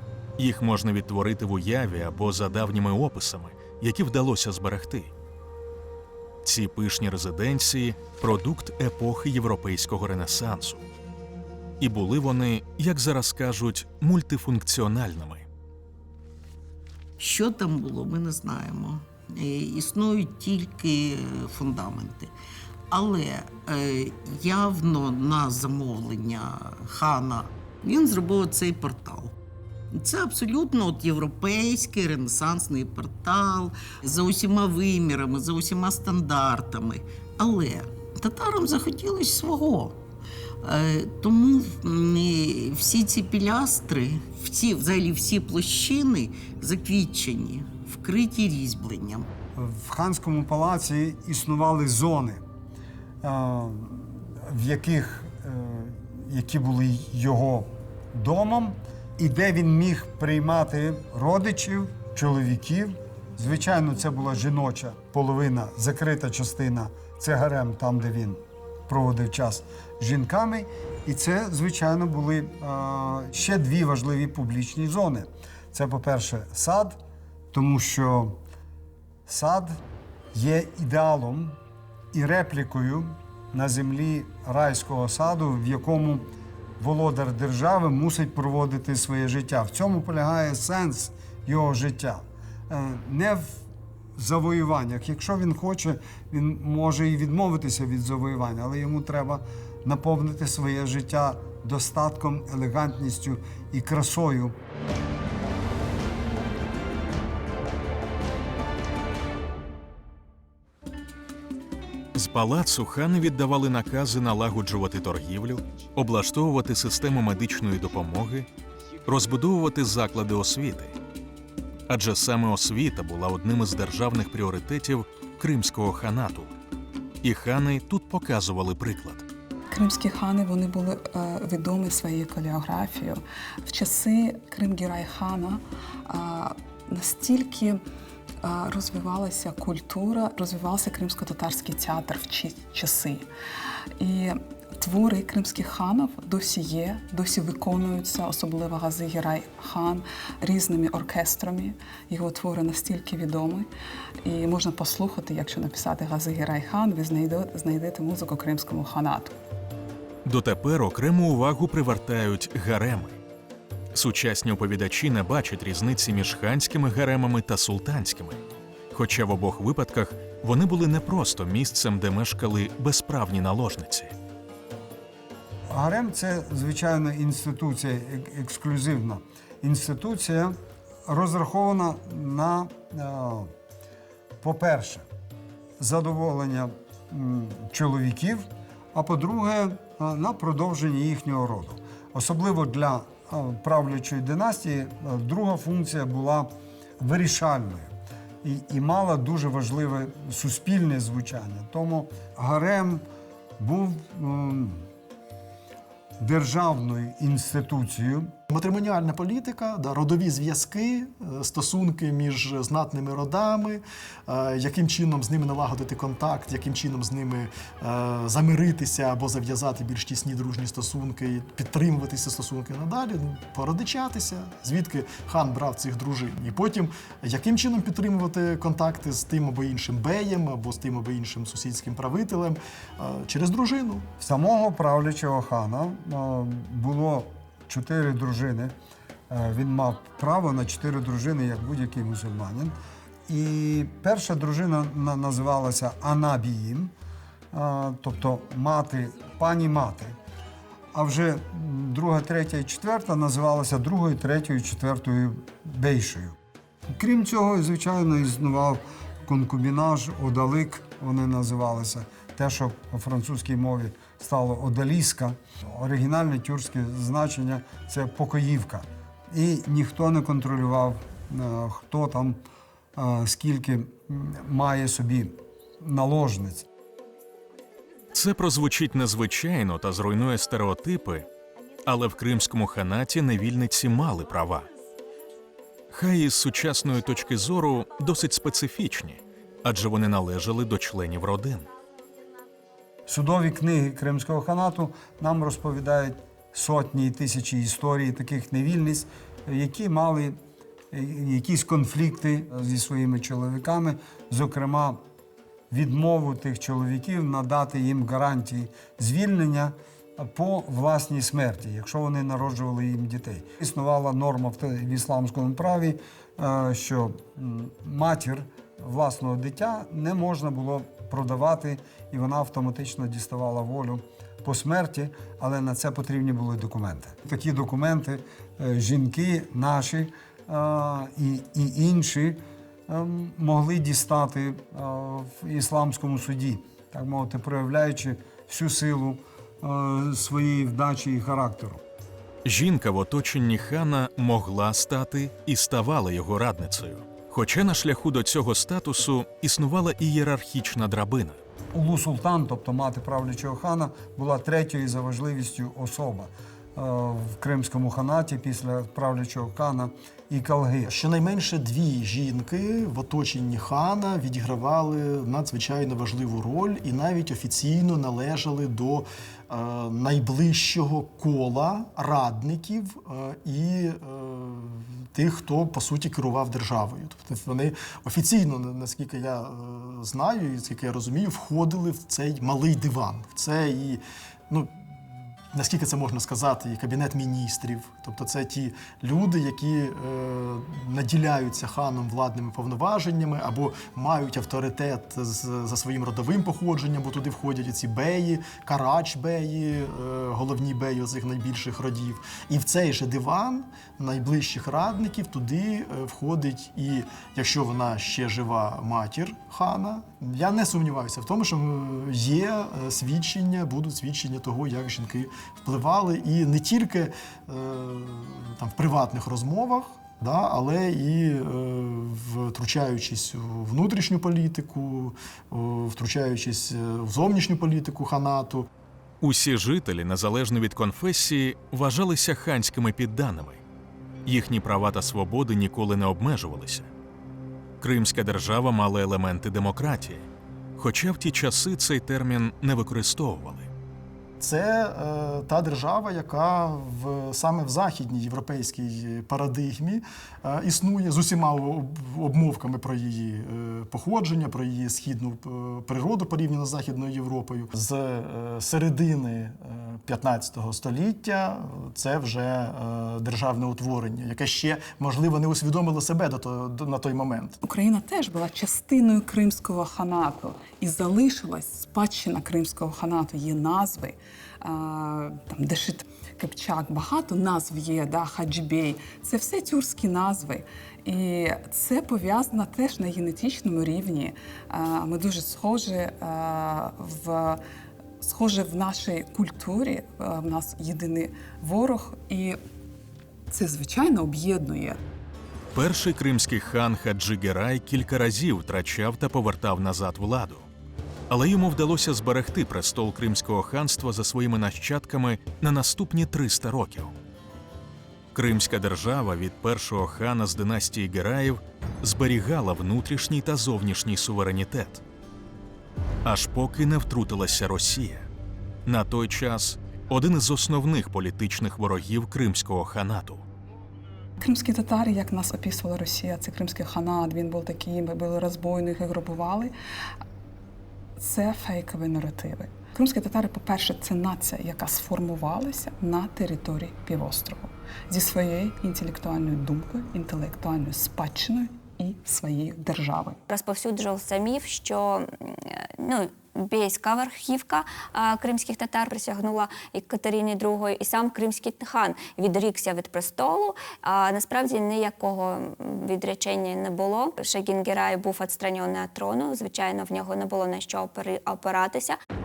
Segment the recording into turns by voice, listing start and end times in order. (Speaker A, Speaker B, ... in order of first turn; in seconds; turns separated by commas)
Speaker A: 0.4-5.1, Speaker A: 6.4-10.9, Speaker A: 11.8-15.5, Speaker B: 17.2-22.3, Speaker B: 22.9-29.4, Speaker B: 29.9-40.0, Speaker B: 40.6-49.3, Speaker C: 49.5-52.5, Speaker C: 53.2-77.0, Speaker C: 77.5-78.4, Speaker C: 79.3-79.8, Speaker C: 80.3-81.6, Speaker C: 82.1-86.3, Speaker C: 86.8-93.6, Speaker C: 94.2-104.6, Speaker A: 112.1-118.5, Speaker A: 119.1-121.0, Speaker A: 121.9-126.5, Speaker A: 127.2-129.3, Speaker D: 129.7-137.8, Speaker D: 138.4-143.3, Speaker D: 144.0-153.7, Speaker D: 154.2-159.3, Speaker A: 160.2-163.2, Speaker A: 163.9-174.1, Speaker C: 175.7-183.5, Speaker C: 184.4-185.1, Speaker C: 185.8-197.9, Speaker C: 198.4-203.1, Speaker C: 203.6-204.9, Speaker C: 206.2-208.3, Speaker E: 208.5-234.1, Speaker C: 234.2-238.8, Speaker C: 239.3-242.8, Speaker C: 243.3-246.9, Speaker C: 247.5-250.2, Speaker C: 250.9-256.4, Speaker C: 256.9-272.4, Speaker C: 273.0-276.7, Speaker A: 278.1-281.3, Speaker A: 281.9-284.7, Speaker A: 285.9-291.7, Speaker C: 293.1-300.4, Speaker C: 300.9-305.0, Speaker C: 305.7-341.8, Speaker A: 342.4-351.4, Speaker C: 351.7-360.9, Speaker E: 360.9-384.9, Speaker E: 385.5-428.7, Speaker A: 429.2-433.6, Speaker A: 434.2-436.9, Speaker A: 437.8-443.7, Speaker E: 444.4-467.6, Speaker D: 467.6-487.6, Speaker D: 488.2-492.6, Speaker D: 493.5-495.0, Speaker A: 495.7-500.7, Speaker A: 501.3-507.1, Speaker A: 508.4-515.0, Speaker A: 516.2-518.3, Speaker A: 518.9-523.5, Speaker D: 524.4-529.7, Speaker D: 531.2-543.4, Speaker F: 543.5-562.2